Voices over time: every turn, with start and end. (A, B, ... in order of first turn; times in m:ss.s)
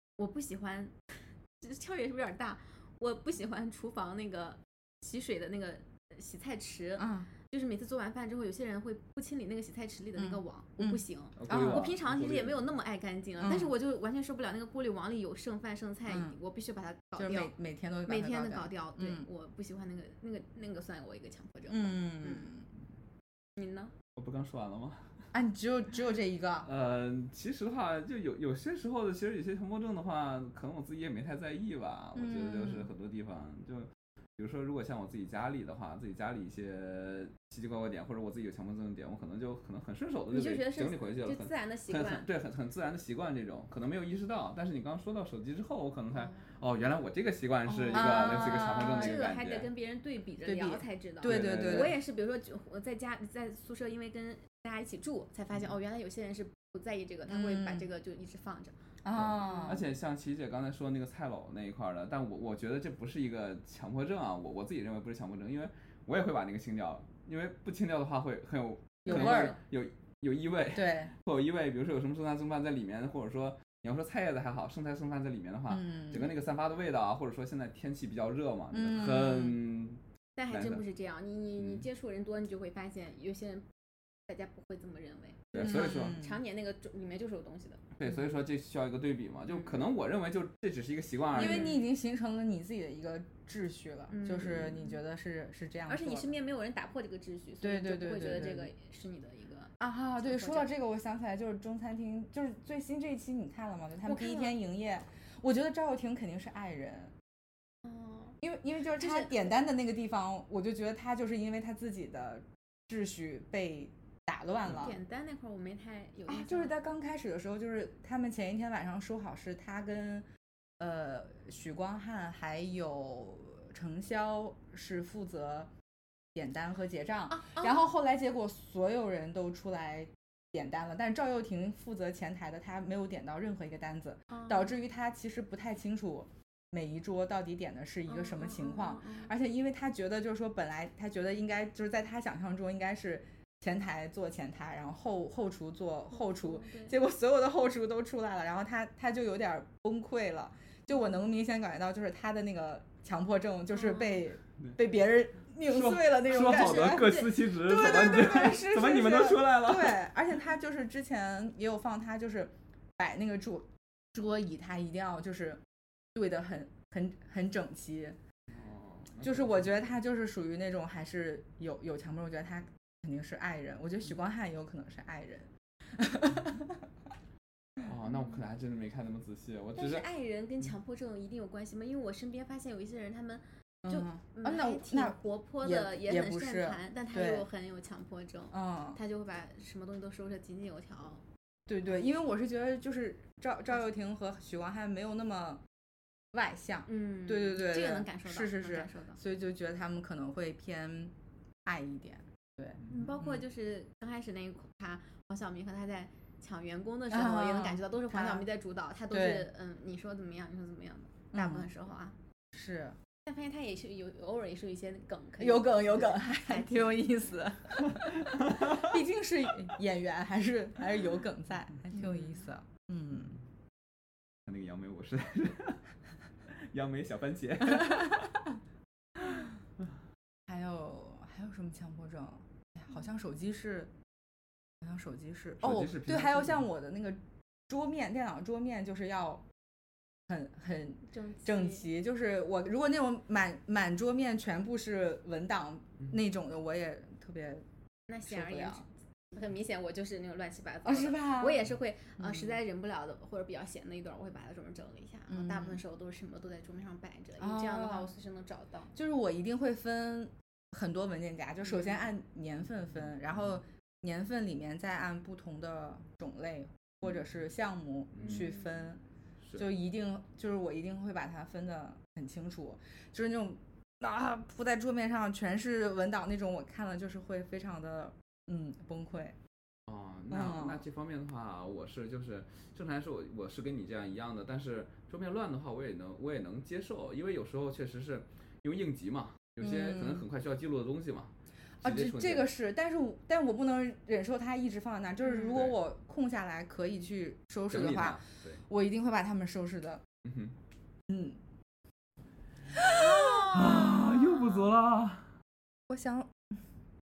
0:00.2-0:17.5 A
0:07.0-0:07.3 B
0:10.2-0:11.9 B
0:11.4-0:12.6 C
0:13.4-0:13.7 B
0:16.1-0:16.4 B
0:17.2-0:19.3 B
0:18.1-0:22.5 A
0:21.7-0:22.7 B
0:23.6-0:23.9 A
0:24.2-0:25.1 C
0:25.3-0:26.7 B
0:26.6-0:49.7 C
0:32.2-0:32.9 B
0:40.3-0:42.3 A
0:47.7-0:49.2 B
0:47.9-0:58.7 A
0:50.4-0:51.9 B
0:51.2-0:52.0 C
0:57.3-0:57.9 B
0:59.0-0:59.8 B
0:59.1-1:20.8 C
0:59.4-0:59.8 A
1:09.0-1:09.5 B
1:09.1-1:09.6 A
1:10.7-1:11.1 B
1:15.7-1:16.3 B
1:18.7-1:19.6 B
1:20.4-1:23.7 A
1:21.6-1:21.8 C
1:24.2-1:27.8 A
1:25.5-1:26.2 C
1:25.5-1:26.4 B
1:28.0-1:31.8 C
1:31.3-1:31.8 A
1:31.3-1:36.3 B
1:34.1-1:35.0 A
1:34.4-1:34.7 C
1:35.9-1:40.7 A
1:37.6-1:38.7 B
1:39.8-1:47.1 B
1:44.0-1:44.6 A
1:47.8-1:48.4 A
1:48.4-1:55.0 B
1:49.0-1:49.3 A
1:54.7-1:56.8 A
1:56.3-2:00.2 B
2:00.8-2:05.7 B
2:06.3-2:45.6 B
2:07.3-2:07.9 A
2:14.3-2:14.7 A
2:18.1-2:19.3 A
2:26.1-2:27.0 A
2:33.7-2:34.2 A
2:35.6-2:40.0 C
2:36.3-2:38.6 A
2:46.1-2:48.2 B
2:48.5-2:49.9 C
2:49.2-2:56.8 B
2:57.8-3:00.1 C
2:59.7-3:11.2 A
3:03.8-3:07.4 B
3:08.5-3:09.0 B
3:11.7-3:15.6 B
3:16.3-3:21.1 B
3:16.9-3:19.2 A
3:21.6-3:23.4 B
3:22.9-3:32.2 A
3:27.1-3:28.4 B
3:29.1-3:29.5 B
3:31.3-3:31.7 B
3:32.5-3:33.0 B
3:33.2-3:37.4 A
3:35.4-3:43.3 B
3:41.9-3:42.4 A
3:44.4-3:45.8 C
3:46.5-3:48.3 C
3:47.8-3:48.2 B
3:50.5-3:53.9 B
3:54.8-3:59.4 B
3:55.6-3:56.6 C
4:00.3-4:07.6 B
4:01.1-4:01.9 A
4:08.1-4:18.9 A
4:08.2-4:08.8 B
4:10.8-4:11.7 B
4:12.2-4:12.6 B
4:15.3-4:15.8 B
4:17.4-4:18.1 B
4:18.9-4:29.0 B
4:21.7-4:22.0 A
4:28.2-4:28.5 C
4:28.2-4:28.8 A
4:29.6-4:39.4 B
4:39.9-4:52.5 C
4:40.3-4:40.8 B
4:49.6-4:50.2 B
4:51.8-5:00.0 B
4:55.4-4:55.8 C
4:57.7-4:58.6 C
5:00.2-5:00.6 C
5:01.1-5:01.4 B
5:02.7-5:04.6 B
5:03.0-5:03.9 A
5:03.3-5:05.3 C
5:05.9-5:06.3 B